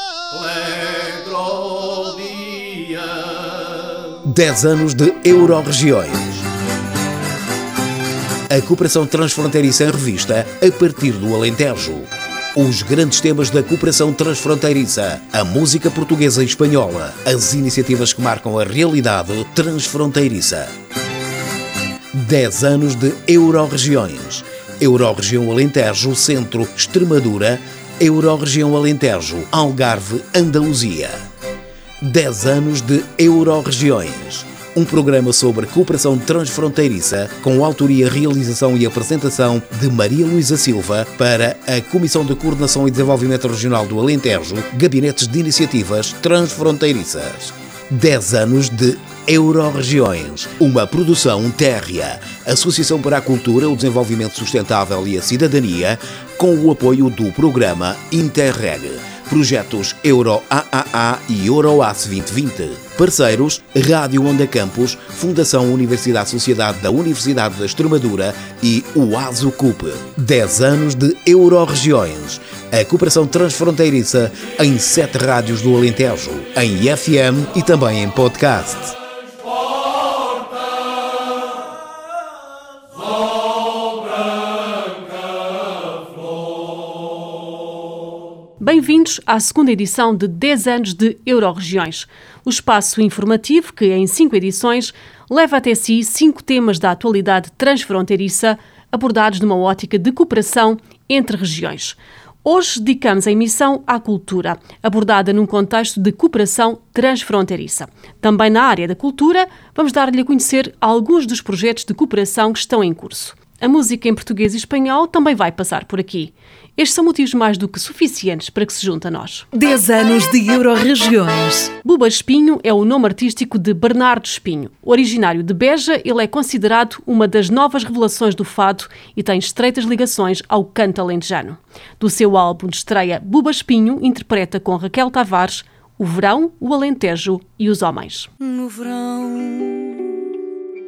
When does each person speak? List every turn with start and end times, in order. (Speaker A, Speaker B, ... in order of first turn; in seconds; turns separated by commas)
Speaker A: 0.3-3.2, Speaker B: 4.2-6.5, Speaker B: 8.5-20.7, Speaker B: 22.1-31.2, Speaker B: 32.0-79.0, Speaker C: 88.6-119.5, Speaker D: 119.5-121.7, Speaker C: 121.8-138.3, Speaker A: 138.4-140.3